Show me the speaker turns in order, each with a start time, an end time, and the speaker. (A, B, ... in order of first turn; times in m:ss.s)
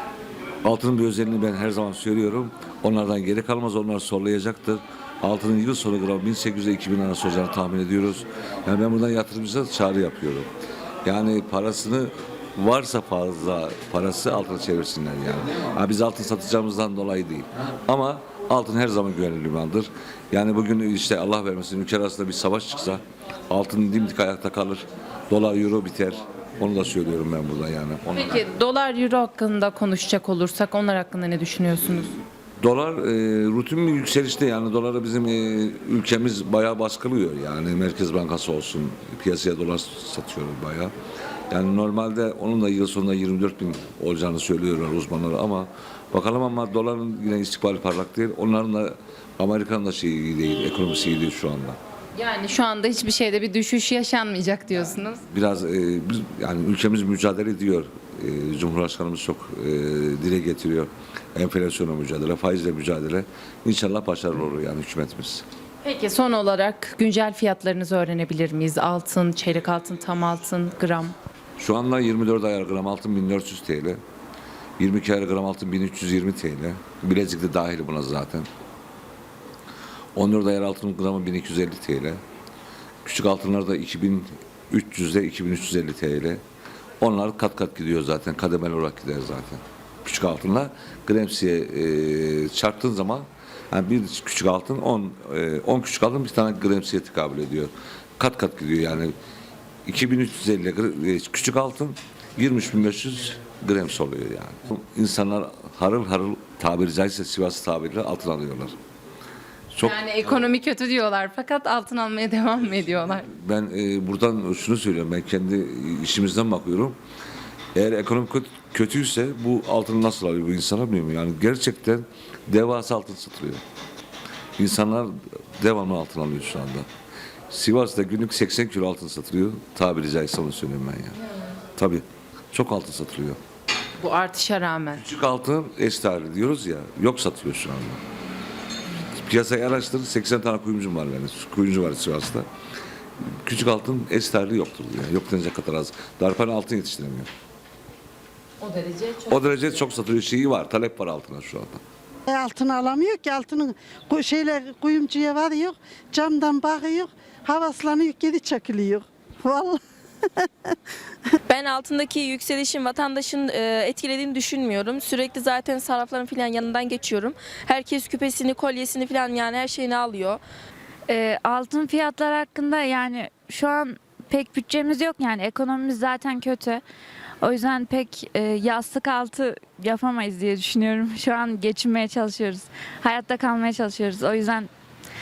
0:00.6-0:10.5 A
0:11.0-0:28.4 A
0:28.1-0:32.2 B
0:32.6-0:40.9 A
0:41.5-0:51.8 A
0:52.1-0:55.2 B
0:55.3-1:05.4 A
1:05.8-1:11.1 B
1:11.6-1:14.0 A
1:14.8-1:18.5 A
1:20.2-1:22.2 A
1:23.0-1:26.4 A
1:27.0-1:39.1 A
1:39.8-1:48.8 A
1:49.7-1:50.0 A
1:49.8-1:53.3 B
1:53.3-1:57.0 A
1:57.7-2:03.6 A
2:04.6-2:06.8 A
2:07.5-2:11.2 A
2:11.8-2:13.4 A
2:14.0-2:15.0 B
2:14.9-2:18.0 A
2:19.1-2:22.5 A
2:23.4-2:27.3 A
2:28.6-2:29.5 B
2:29.3-2:31.8 A
2:32.3-2:39.8 C
2:40.4-2:40.7 C
2:41.5-2:50.4 D
2:51.1-2:56.8 E
2:57.4-3:04.7 E